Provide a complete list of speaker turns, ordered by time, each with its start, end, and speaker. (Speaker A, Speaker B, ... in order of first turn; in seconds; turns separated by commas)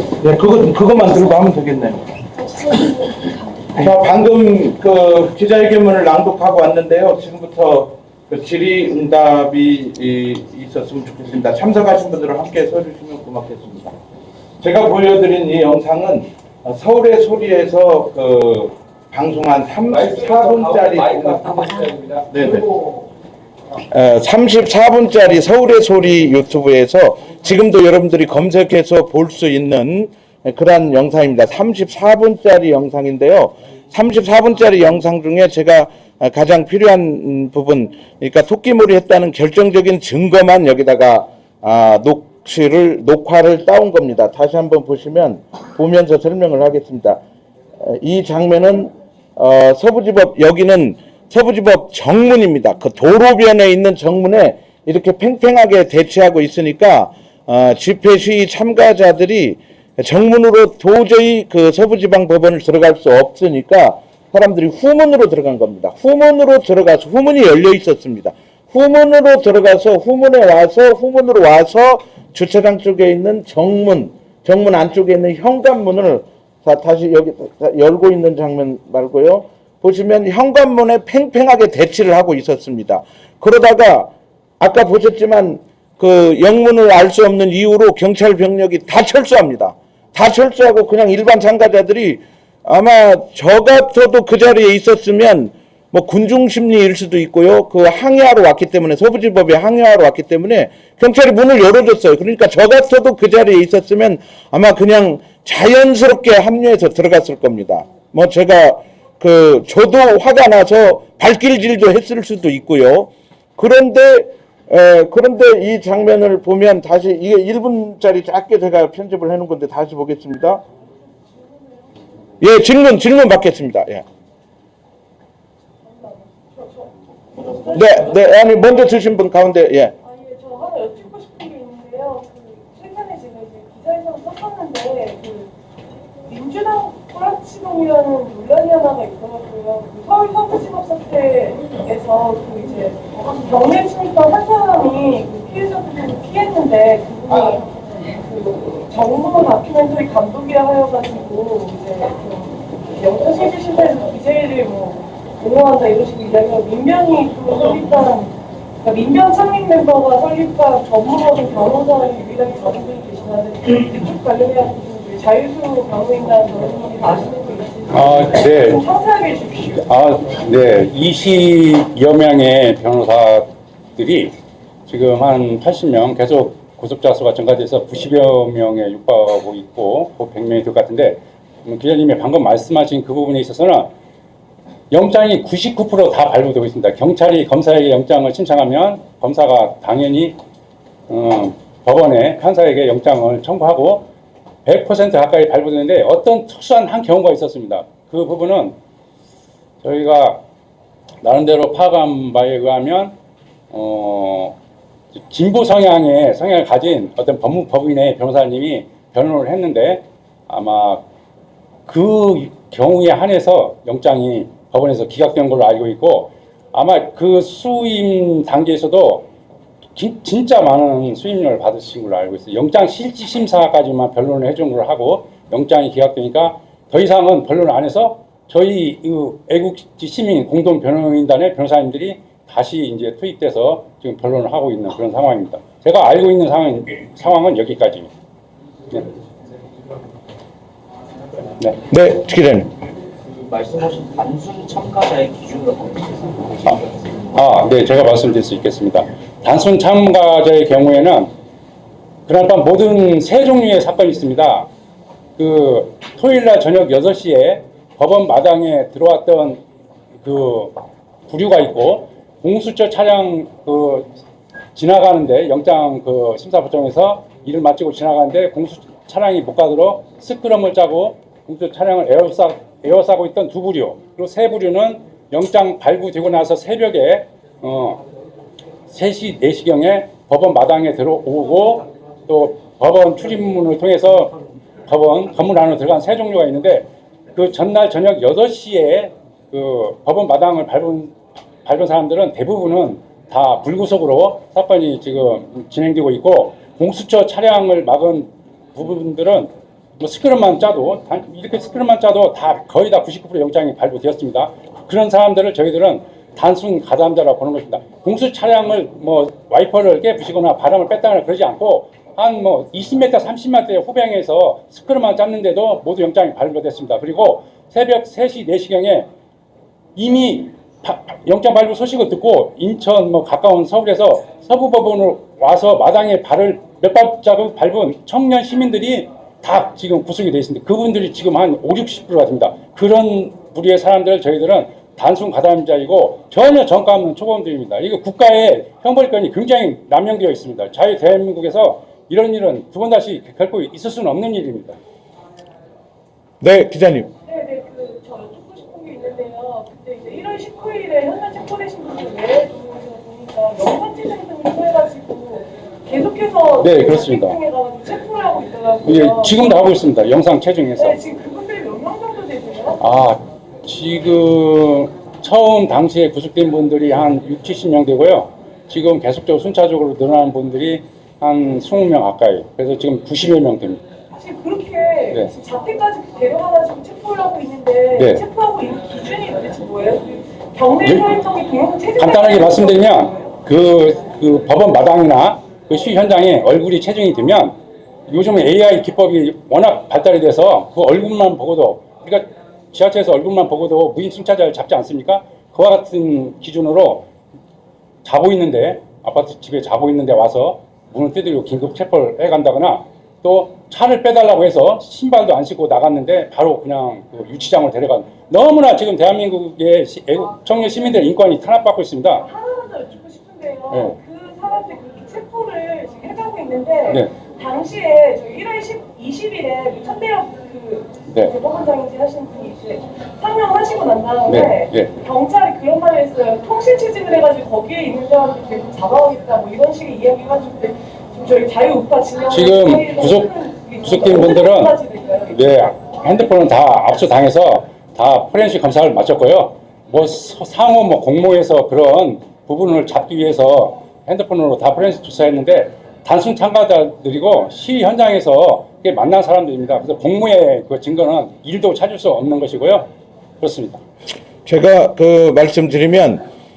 Speaker A: 0.2-2.2, Speaker A: 3.7-14.0, Speaker A: 14.6-21.7, Speaker B: 21.7-22.2, Speaker A: 22.3-22.7, Speaker A: 23.9-47.2, Speaker A: 47.8-120.6, Speaker C: 121.1-122.3, Speaker A: 122.4-124.0, Speaker C: 125.8-128.3, Speaker A: 127.7-129.9, Speaker C: 130.0-135.5, Speaker C: 136.3-169.8, Speaker D: 167.9-168.8, Speaker D: 169.8-174.3, Speaker D: 174.9-183.9, Speaker D: 184.9-190.4, Speaker D: 191.1-194.1, Speaker D: 194.6-198.8, Speaker D: 199.8-200.4, Speaker D: 201.2-203.1, Speaker D: 203.7-204.6, Speaker D: 205.2-211.0, Speaker D: 211.9-219.3, Speaker D: 219.9-238.1, Speaker A: 241.9-242.7, Speaker B: 243.4-247.1, Speaker D: 247.3-251.3, Speaker D: 252.3-254.7, Speaker D: 255.4-259.6, Speaker D: 260.2-264.1, Speaker D: 264.7-278.0, Speaker D: 278.9-284.3, Speaker D: 284.9-319.1, Speaker D: 319.9-344.8, Speaker A: 346.4-347.1, Speaker C: 347.2-359.8, Speaker D: 356.6-357.4, Speaker D: 358.8-361.0, Speaker C: 360.8-362.8, Speaker D: 362.8-373.8, Speaker C: 374.1-383.4, Speaker D: 377.9-378.2, Speaker D: 380.8-381.2, Speaker D: 382.0-387.6, Speaker D: 388.1-397.1, Speaker D: 398.0-412.2, Speaker C: 412.2-435.3, Speaker D: 424.3-424.9, Speaker D: 432.3-433.3, Speaker D: 433.8-434.8, Speaker D: 435.3-452.9, Speaker D: 453.4-453.8, Speaker A: 454.4-456.2